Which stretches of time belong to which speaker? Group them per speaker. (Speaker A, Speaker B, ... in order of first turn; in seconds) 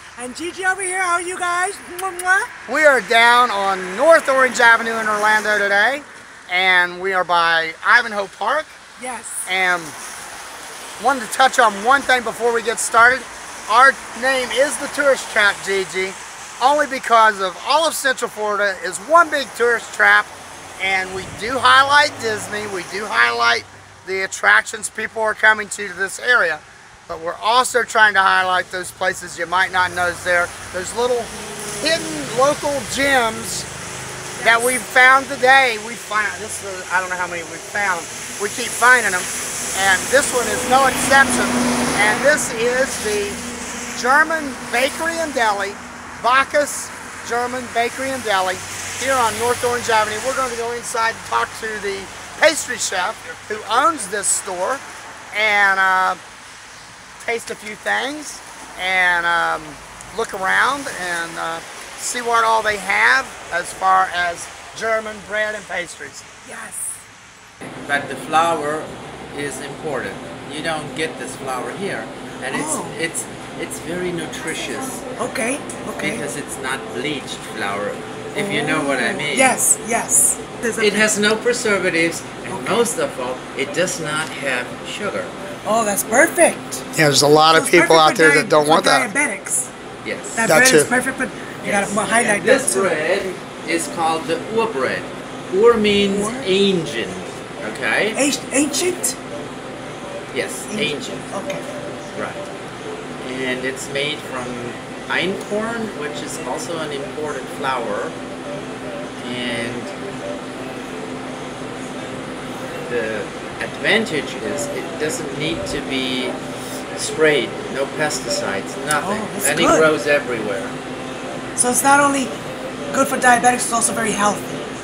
Speaker A: 0.2-2.5, 9.0-9.5, 34.4-34.7, 66.4-67.1, 72.5-73.0, 75.2-76.2, 78.3-81.1, 82.5-82.9, 85.6-86.8, 87.5-89.7, 90.3-92.9, 96.1-96.5, 98.1-99.2, 100.7-101.6, 119.0-119.9, 121.5-122.3, 122.9-124.6
Speaker B: 2.7-8.8, 9.5-9.9, 11.0-33.7, 34.4-43.4, 43.9-56.2, 57.2-66.2, 86.9-89.1, 90.4-90.9
Speaker C: 67.8-75.0, 76.0-79.6, 80.8-85.3, 90.0-90.5, 91.6-98.2, 100.3-101.3, 102.1-102.4, 103.2-108.2, 109.2-109.9, 112.8-116.3, 116.9-120.8